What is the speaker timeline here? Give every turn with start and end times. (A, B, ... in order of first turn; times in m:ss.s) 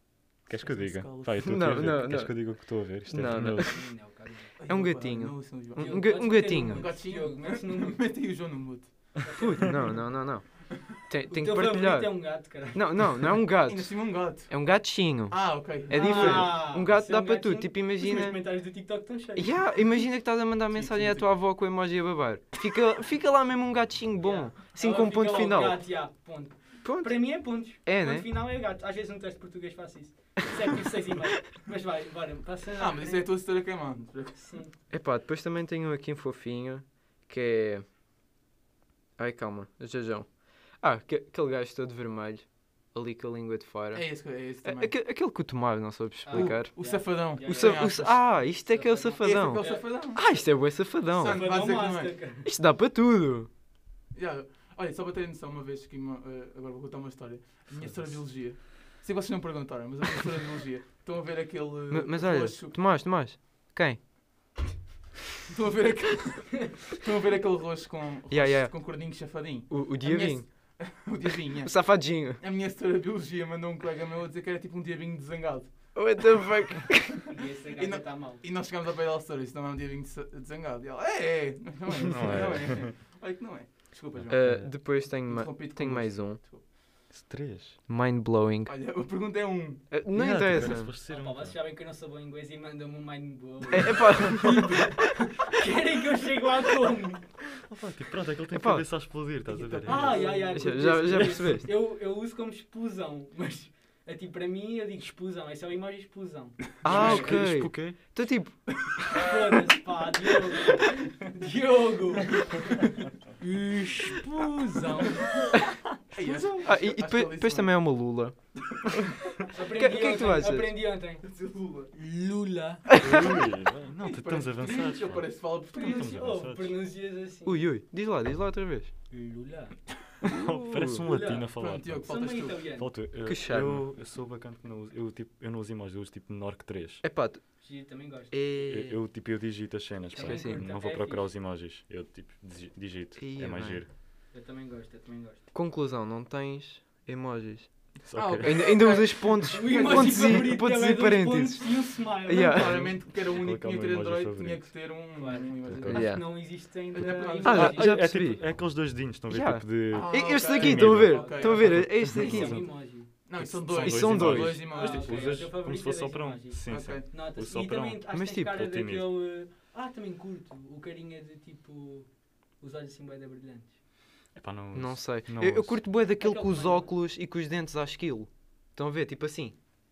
0:00.5-0:04.0 A
0:00.5-0:01.4 B
0:01.4-0:03.9 C
0:03.6-0:04.5 D
0:04.6-0:09.2 B
0:04.7-0:07.0 C
0:05.8-0:08.1 D
0:09.2-0:09.7 D
0:09.3-0:18.4 C
0:11.2-0:13.3 D
0:13.7-0:16.6 B
0:15.9-0:19.5 D
0:19.4-0:26.0 C
0:20.7-0:21.3 B
0:24.2-0:33.3 D
0:26.8-0:28.3 C
0:32.8-0:34.5 B
0:34.3-0:34.7 D
0:34.9-0:37.8 C
0:39.2-0:51.4 C
0:43.9-0:45.0 B
0:46.2-0:50.0 D
0:46.3-0:48.3 B
0:49.2-0:50.4 B
0:51.1-0:52.3 B
0:51.2-0:52.5 D
0:52.4-0:53.5 C
0:54.1-1:02.8 B
0:57.7-0:58.4 A
1:01.9-1:04.0 C
1:05.5-1:16.3 B
1:08.3-1:11.1 C
1:11.6-1:12.4 C
1:16.0-1:17.2 C
1:17.3-1:18.4 D
1:17.8-1:26.6 B
1:21.9-1:22.9 A
1:24.2-1:24.8 A
1:24.3-1:26.4 C
1:27.1-1:27.8 A
1:27.9-1:29.0 C
1:28.6-1:29.9 B
1:29.9-1:30.9 C
1:30.1-1:31.6 A
1:31.0-1:37.4 D
1:33.7-1:34.8 C
1:34.4-1:34.8 B
1:37.6-1:40.4 A
1:38.5-1:39.1 C
1:39.4-1:41.5 B
1:39.9-1:47.4 D
1:40.5-1:41.7 C
1:46.8-1:47.5 B
1:46.8-1:48.6 C
1:46.9-1:48.2 A
1:49.1-1:55.6 D
1:56.1-1:57.8 B
1:56.2-1:58.4 C
1:59.5-2:01.2 D
1:59.8-2:00.7 C
2:01.2-2:01.9 B
2:01.9-2:03.0 D
2:03.0-2:06.8 A
2:04.0-2:06.2 B
2:05.8-2:07.7 D
2:07.5-2:08.9 C
2:09.1-2:09.8 D
2:10.3-2:17.0 A
2:10.3-2:11.0 C
2:11.0-2:11.5 D
2:11.6-2:12.6 B
2:12.0-2:12.9 D
2:13.2-2:13.9 C
2:17.0-2:19.0 C
2:17.6-2:18.3 D
2:18.6-2:23.9 A
2:20.1-2:21.3 D
2:20.2-2:20.7 C
2:23.2-2:23.8 C
2:24.3-2:25.4 D
2:25.5-2:32.8 C
2:28.0-2:28.9 A
2:28.1-2:30.5 B
2:28.8-2:32.7 D
2:32.3-2:36.1 B
2:32.6-2:35.0 A
2:35.2-2:38.3 D
2:35.6-2:36.3 A
2:35.9-2:36.2 C
2:36.9-2:37.7 B
2:37.4-2:38.5 C
2:37.5-2:42.8 A
2:39.3-2:42.7 C
2:39.9-2:41.8 B
2:41.1-2:43.1 D
2:43.3-2:45.5 B
2:43.3-2:49.1 A
2:43.8-2:44.7 C
2:44.6-2:53.8 D
2:46.7-2:47.1 B
2:48.1-2:48.6 C
2:54.4-2:55.9 A
2:54.7-2:59.6 C
2:56.2-2:57.0 D